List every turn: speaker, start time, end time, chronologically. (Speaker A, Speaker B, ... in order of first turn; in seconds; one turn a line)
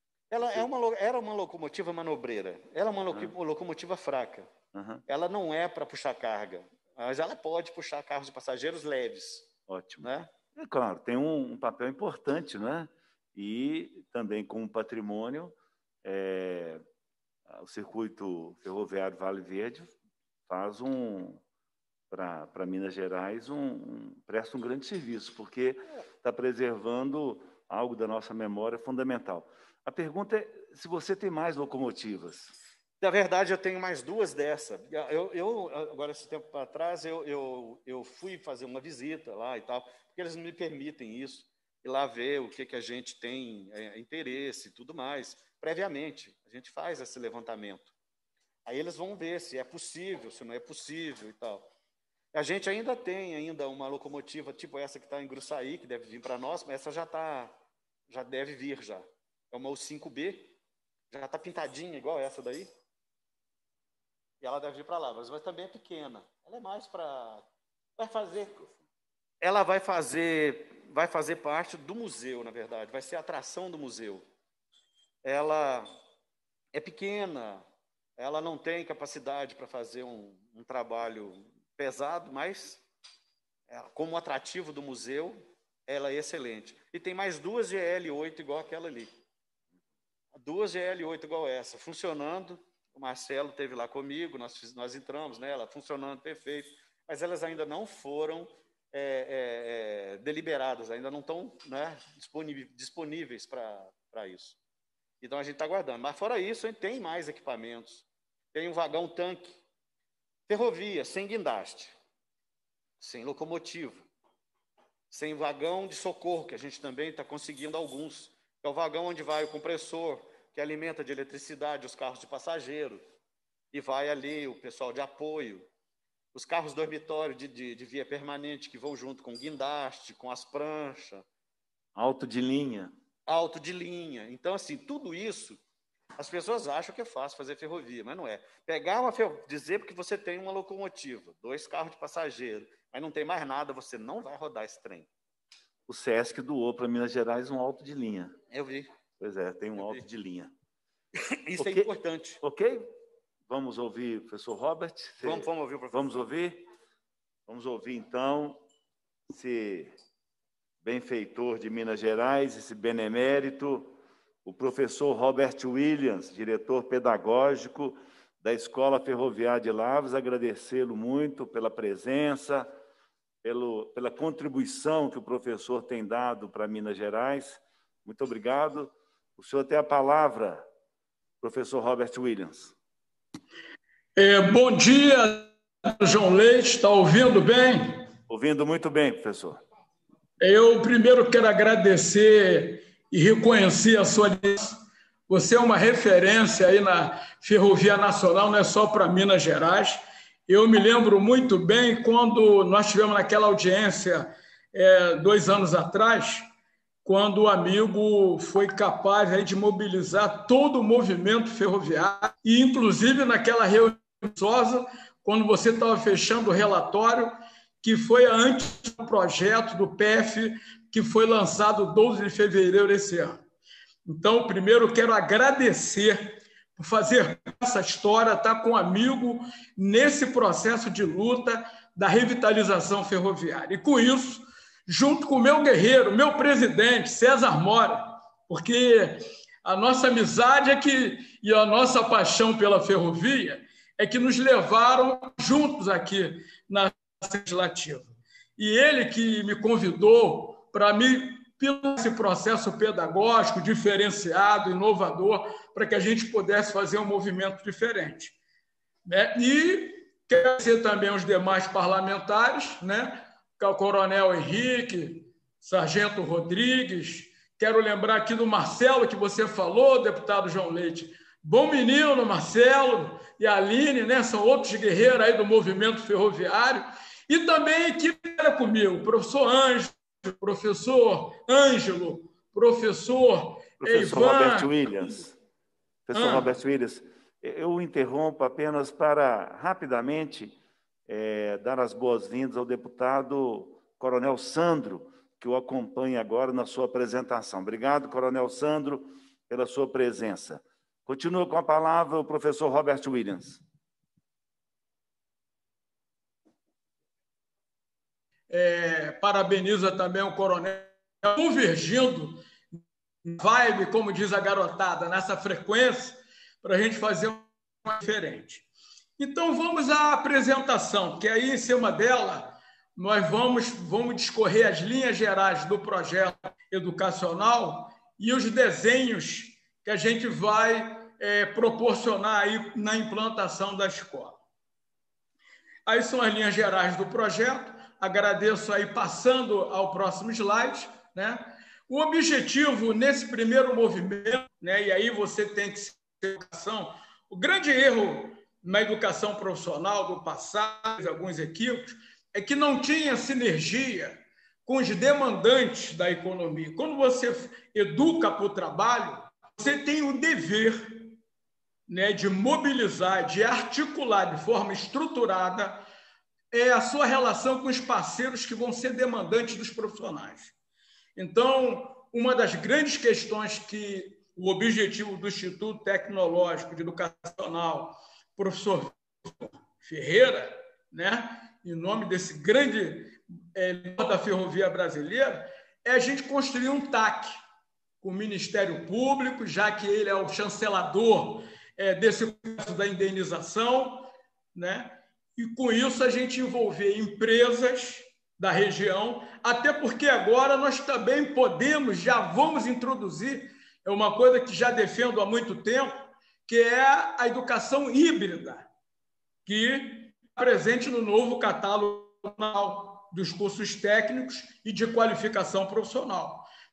Speaker A: 0.3-4.5
Speaker B: 0.4-0.7
Speaker B: 4.7-5.0
Speaker A: 5.1-9.5
Speaker B: 9.7-16.8
Speaker A: 10.0-10.3
Speaker B: 17.5-19.9
Speaker B: 20.5-21.4
Speaker B: 22.1-32.5
Speaker A: 33.0-47.9
Speaker A: 48.7-51.7
Speaker A: 52.3-57.6
Speaker A: 58.1-60.5
Speaker A: 61.1-62.7
Speaker A: 64.4-67.5
Speaker A: 68.0-68.7
Speaker A: 69.4-74.3
Speaker A: 75.2-75.9
Speaker A: 76.7-77.7
Speaker A: 78.2-82.8
Speaker A: 83.7-89.1
Speaker A: 90.3-104.6
Speaker A: 105.2-109.6
Speaker A: 110.5-112.0
Speaker A: 113.0-114.1
Speaker A: 115.1-123.0
Speaker A: 123.7-125.7
Speaker A: 126.3-131.2
Speaker B: 132.0-132.9
Speaker A: 133.3-135.6
Speaker A: 136.2-145.1
Speaker B: 145.9-148.4
Speaker A: 148.5-148.9
Speaker B: 149.2-150.5
Speaker A: 149.8-150.0
Speaker A: 151.2-152.4
Speaker B: 151.6-151.9
Speaker B: 152.4-152.9
Speaker B: 153.5-156.7
Speaker A: 155.2-156.3
Speaker B: 157.5-158.6
Speaker B: 159.3-159.9
Speaker B: 160.8-172.7
Speaker B: 173.4-180.7
Speaker B: 181.4-182.7
Speaker C: 184.2-188.1
Speaker B: 188.3-189.6
Speaker C: 190.4-206.5
Speaker C: 207.1-223.4
Speaker C: 224.1-258.4
Speaker C: 259.1-284.7
Speaker B: 283.8-285.3
Speaker B: 286.1-290.6
Speaker C: 286.1-286.5
Speaker B: 291.1-303.6
Speaker C: 308.5-312.4
Speaker C: 313.2-318.6
Speaker C: 319.2-334.4
Speaker C: 335.9-361.2
Speaker C: 361.9-365.8
Speaker C: 366.5-370.5
Speaker C: 371.2-387.4
Speaker C: 388.0-408.7
Speaker C: 409.5-416.5